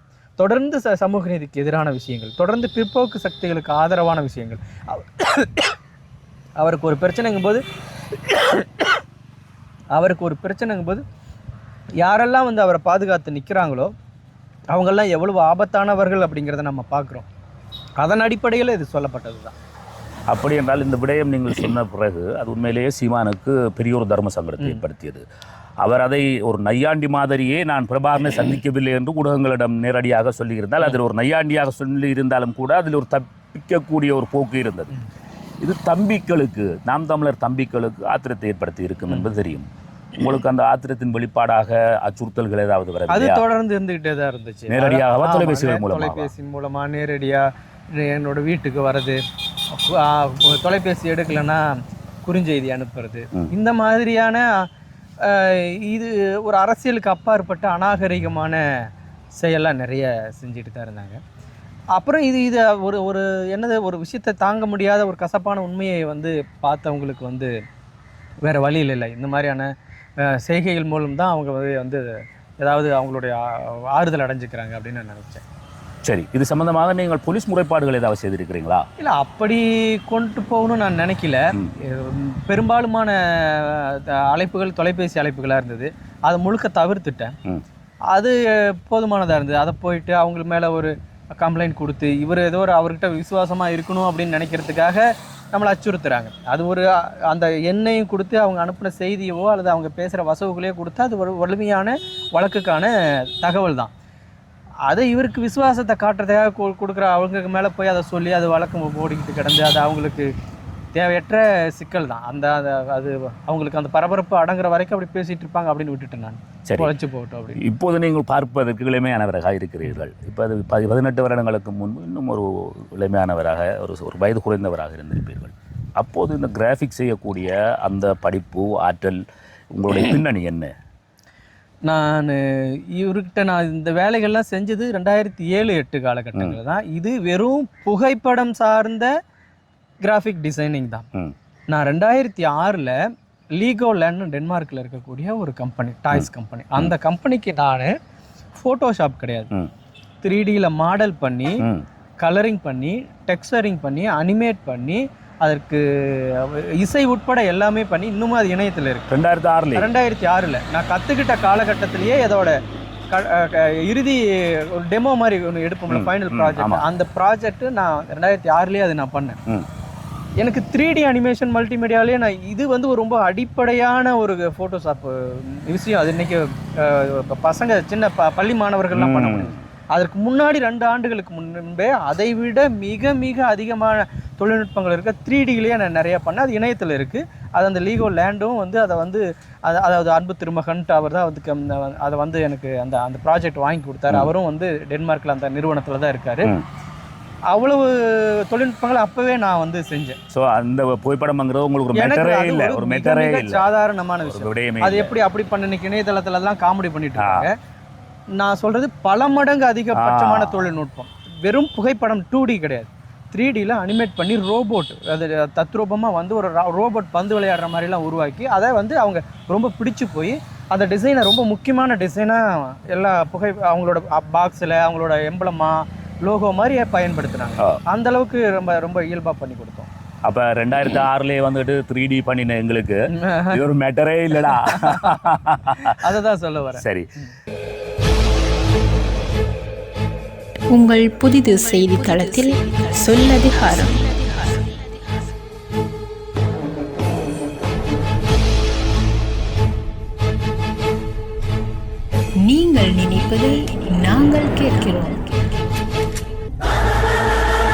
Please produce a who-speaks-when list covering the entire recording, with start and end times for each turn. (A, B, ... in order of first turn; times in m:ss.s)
0:00.4-0:05.7 A
0:06.6-0:07.6 A
0:08.2-0:08.9 A
0:09.9-0:11.0 A
0:12.0-0:13.9 A
0:14.7-0:17.3 A
0:18.0-0:19.6 A
0:20.3-0:25.2 B
0:25.8-0:34.9 B
0:35.6-0:43.4 B
0:43.1-0:49.2 A
0:44.7-0:46.3 B
0:49.7-0:51.7 A
0:52.2-0:54.6 A
0:55.2-0:58.6 A
0:59.4-1:01.2 A
1:02.0-1:07.5 A
1:08.4-1:15.4 A
1:16.0-1:18.8 B
1:19.0-1:27.3 A
1:28.1-1:43.9 A
1:44.9-1:50.3 A
1:50.9-1:57.6 A
1:56.7-1:56.9 B
1:57.6-2:09.2 B
2:09.7-2:10.7 B
2:11.8-2:19.1 A
2:20.0-2:21.1 A
2:21.7-2:23.0 A
2:23.6-2:27.9 A
2:28.6-2:29.5 A
2:30.2-2:31.6 A
2:32.2-2:39.1 A
2:39.1-2:39.9 B
2:39.8-2:42.6 A
2:43.1-2:49.4 A
2:45.9-2:46.8 B
2:50.4-3:16.5 A
2:58.9-2:59.6 B
3:17.5-3:20.2 A
3:20.3-3:23.6 B
3:21.9-3:27.5 A
3:24.2-3:25.2 B
3:27.2-3:27.5 B
3:28.4-3:49.9 A
3:30.0-3:30.7 B
3:50.2-3:53.0 B
3:53.1-3:53.6 A
3:53.5-3:56.0 B
3:54.4-3:55.3 A
3:55.8-3:56.8 A
3:56.8-3:57.1 B
4:00.7-4:04.8 C
4:12.4-4:15.5 C